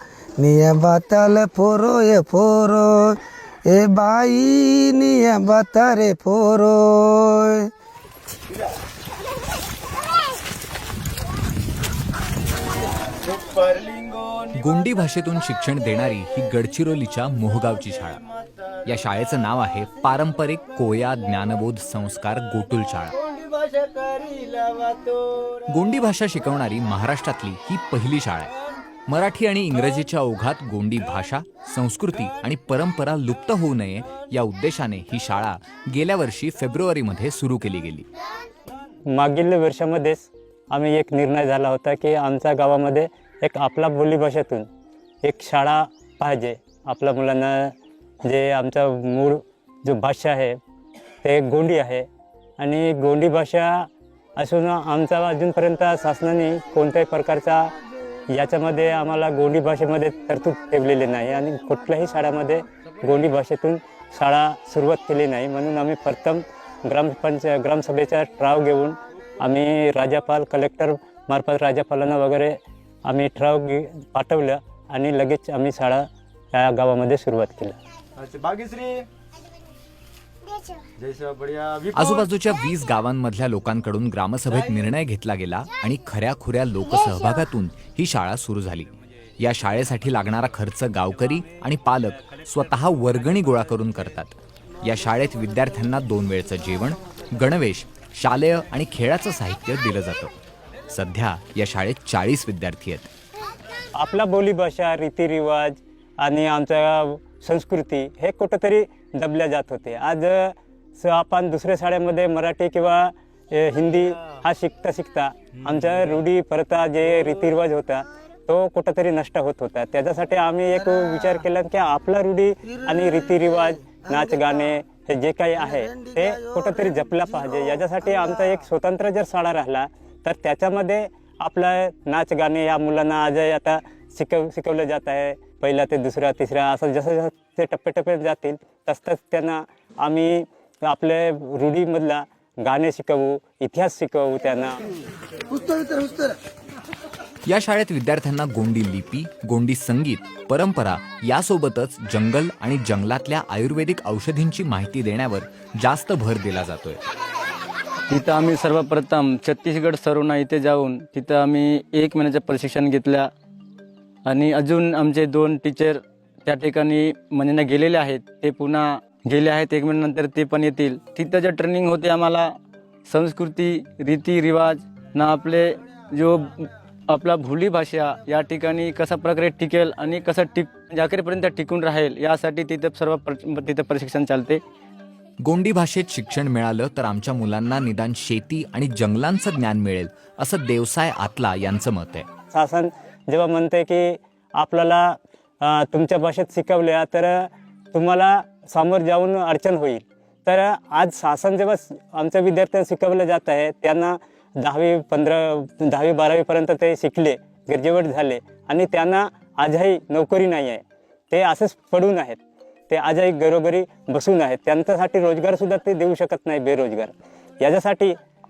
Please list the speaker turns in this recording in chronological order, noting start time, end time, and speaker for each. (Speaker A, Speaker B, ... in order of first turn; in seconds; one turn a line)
Speaker A: 0.4-3.1
Speaker A: 3.7-7.7
Speaker B: 13.4-14.3
Speaker C: 14.6-18.2
Speaker C: 18.9-23.1
Speaker B: 23.4-25.4
Speaker C: 25.7-28.5
Speaker C: 29.1-38.0
Speaker D: 39.1-44.7
Speaker D: 45.2-47.7
Speaker D: 48.2-50.6
Speaker D: 51.2-52.0
Speaker D: 52.6-57.7
Speaker D: 58.3-77.8
Speaker B: 78.2-79.0
Speaker B: 81.0-81.9
Speaker C: 81.9-100.3
Speaker C: 100.9-103.1
Speaker D: 104.0-144.8
Speaker A: 125.7-126.3
Speaker C: 147.5-157.0
Speaker E: 158.1-163.3
Speaker E: 164.2-172.5
Speaker E: 173.1-184.6
Speaker C: 185.4-192.3
Speaker D: 192.5-212.4
Speaker D: 212.9-218.1